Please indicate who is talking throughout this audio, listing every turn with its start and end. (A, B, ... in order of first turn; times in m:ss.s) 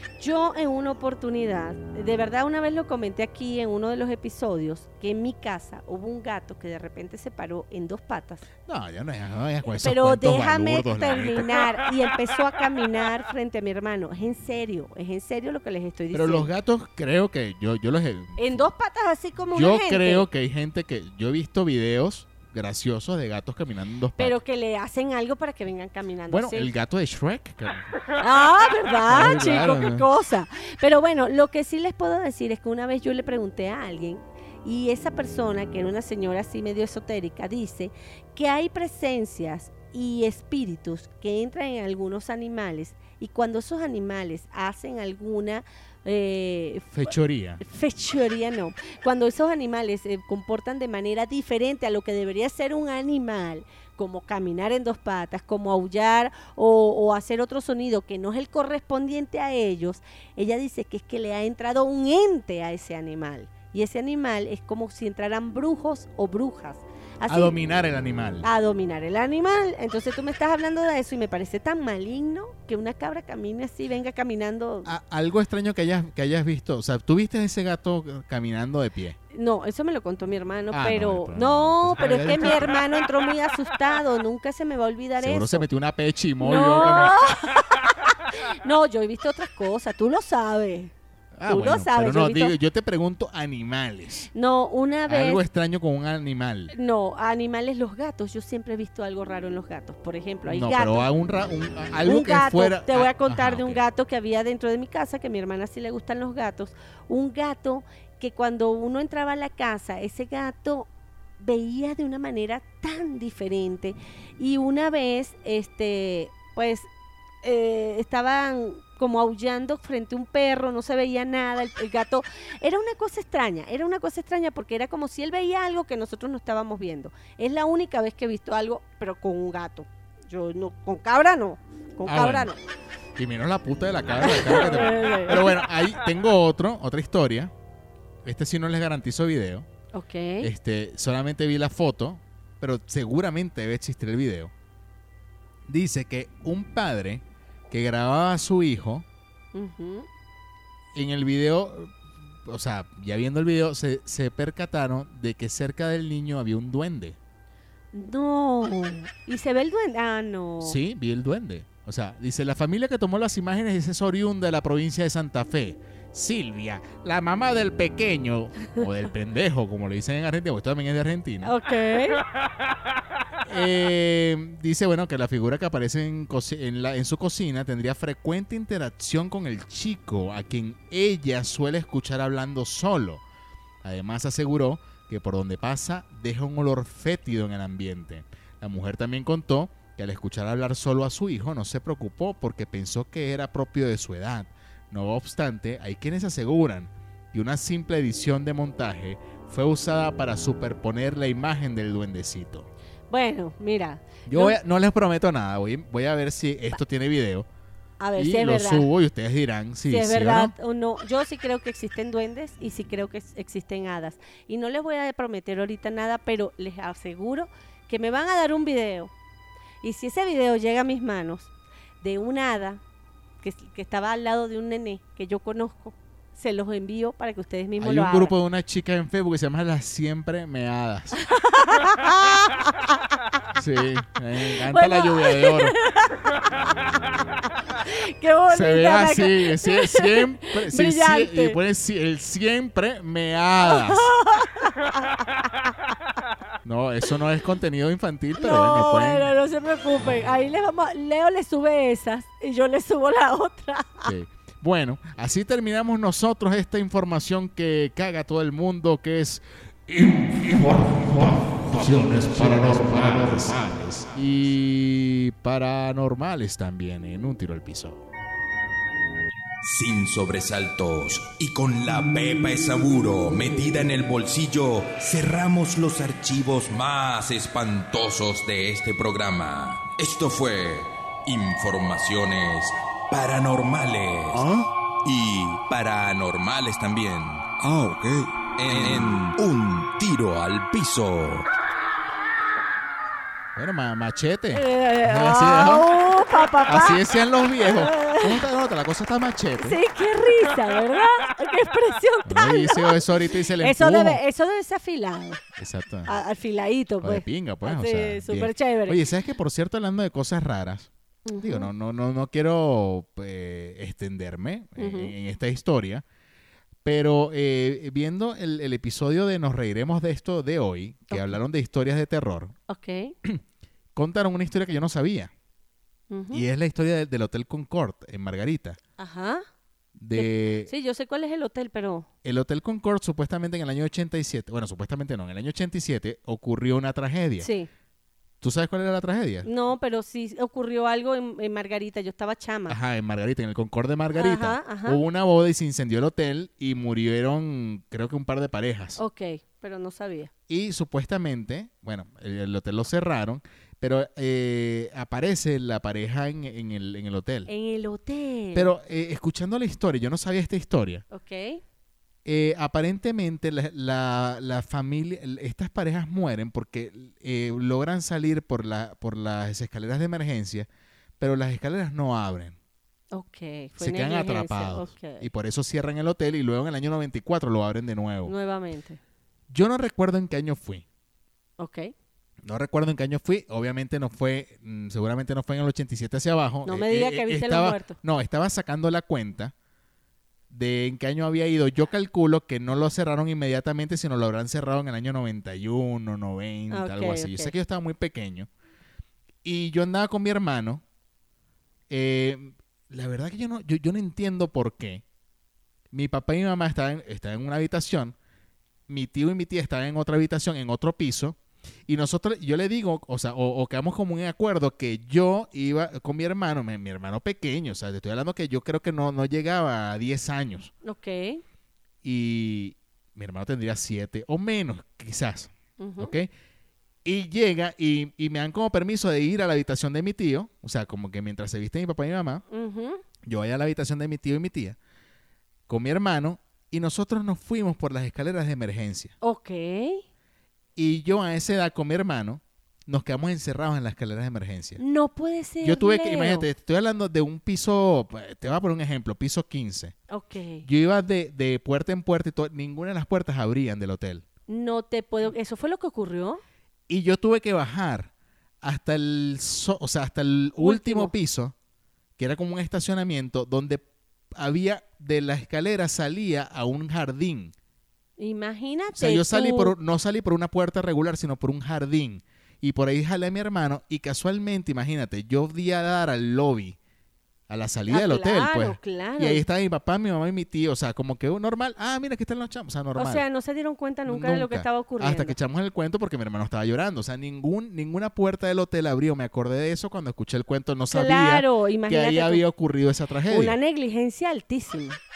0:00.2-0:08.4 A
0:08.6-0:11.8 B
0:09.7-0:16.5 A
0:16.1-0:18.7 B
0:18.4-0:20.3 A
0:19.5-0:24.3 B
0:24.2-0:26.7 A
0:26.3-0:27.9 B
0:28.2-1:07.5 A
0:29.1-0:30.1 B
0:46.9-0:47.6 B
1:07.2-1:08.4 B
1:08.4-1:14.9 A
1:14.8-1:19.2 B
1:19.3-1:25.6 A
1:20.7-1:22.8 B
1:25.2-1:27.2 B
1:26.4-1:30.9 A
1:31.3-1:34.3 B
1:31.5-1:32.6 A
1:34.3-1:35.4 A
1:35.1-1:36.7 B
1:36.7-1:41.1 A
1:40.4-1:43.8 B
1:42.0-1:56.9 A
1:57.4-2:12.6 A
2:12.0-2:12.5 B
2:13.2-2:17.5 B
2:14.2-2:15.6 A
2:18.2-2:19.7 B
2:19.9-2:20.5 A
2:20.4-2:24.5 B
2:25.7-2:29.0 B
2:29.5-2:30.1 A
2:30.9-2:31.9 B
2:32.4-2:37.2 B
2:37.9-2:40.8 A
2:40.6-2:51.5 B
2:51.4-2:52.2 A
2:53.4-3:03.2 B
3:03.8-3:22.7 B
3:23.1-3:24.6 A
3:24.3-3:27.5 B
3:28.0-3:28.9 A
3:28.2-3:30.5 B
3:29.9-3:39.1 A
3:39.8-3:41.5 A
3:42.0-3:42.8 A
3:43.4-3:48.3 A
3:47.8-3:51.2 B
3:51.2-3:53.0 A
3:53.5-3:55.8 B
3:54.4-3:56.5 A
3:57.8-4:01.6 A
3:58.5-4:04.1 B
4:03.6-4:05.7 A
4:06.6-4:09.3 B
4:08.4-4:14.1 A
4:14.0-4:28.0 B
4:29.6-4:51.5 C
4:48.7-4:49.2 B
4:53.6-4:55.9 B
4:54.5-4:57.0 A
4:56.7-4:59.8 B
4:57.6-4:58.4 A
4:59.6-5:03.0 A
5:02.2-5:04.2 B
5:03.6-5:05.4 A
5:05.6-5:06.2 B
5:06.1-5:09.0 A
5:07.0-5:16.0 B
5:11.3-5:11.7 A
5:14.8-5:15.1 A
5:16.8-5:22.6 B
5:21.1-5:21.4 A
5:22.7-5:23.1 A
5:24.0-5:25.3 B
5:26.1-5:26.4 A
5:26.3-5:28.8 B
5:29.0-5:29.4 A
5:30.0-5:30.7 B
5:30.1-5:32.1 A
5:32.2-5:37.5 B
5:37.4-5:37.7 A
5:38.4-5:39.5 B
5:39.4-5:42.8 A
5:42.7-5:49.0 B
5:44.1-5:45.0 A
5:49.0-5:50.3 A
5:50.5-5:57.5 B
5:57.5-5:58.7 A
5:58.5-6:01.0 B
6:01.1-6:01.6 A
6:02.2-6:10.7 B
6:11.2-6:12.6 B
6:13.1-6:15.3 A
6:13.8-6:18.3 B
6:18.2-6:19.0 A
6:19.5-6:20.8 B
6:21.6-6:21.9 A
6:22.4-6:29.5 B
6:26.6-6:28.0 A
6:30.5-6:38.5 B
6:36.7-6:37.5 A
6:39.4-6:40.8 B
6:41.9-6:45.0 B
6:45.9-6:48.2 B
6:48.9-7:00.7 B
7:00.8-7:01.4 A
7:02.0-7:06.3 B
7:05.8-7:06.1 A
7:07.0-7:12.4 B
7:12.5-7:13.0 A
7:13.2-7:14.8 B
7:15.7-7:19.1 B
7:19.2-7:20.0 A
7:20.8-7:24.8 B
7:24.8-7:26.5 A
7:25.6-7:29.9 B
7:30.1-7:30.6 A
7:30.6-7:34.2 B
7:34.5-7:36.4 A
7:36.9-7:38.1 B
7:38.6-7:41.5 B
7:40.6-7:41.1 A
7:42.2-7:47.5 B
7:48.2-7:49.7 A
7:48.9-7:56.8 B
7:57.5-8:03.2 B
7:57.9-7:59.4 A
8:03.0-8:05.4 A
8:04.1-8:13.6 B
8:10.9-8:12.4 A
8:13.3-8:15.0 A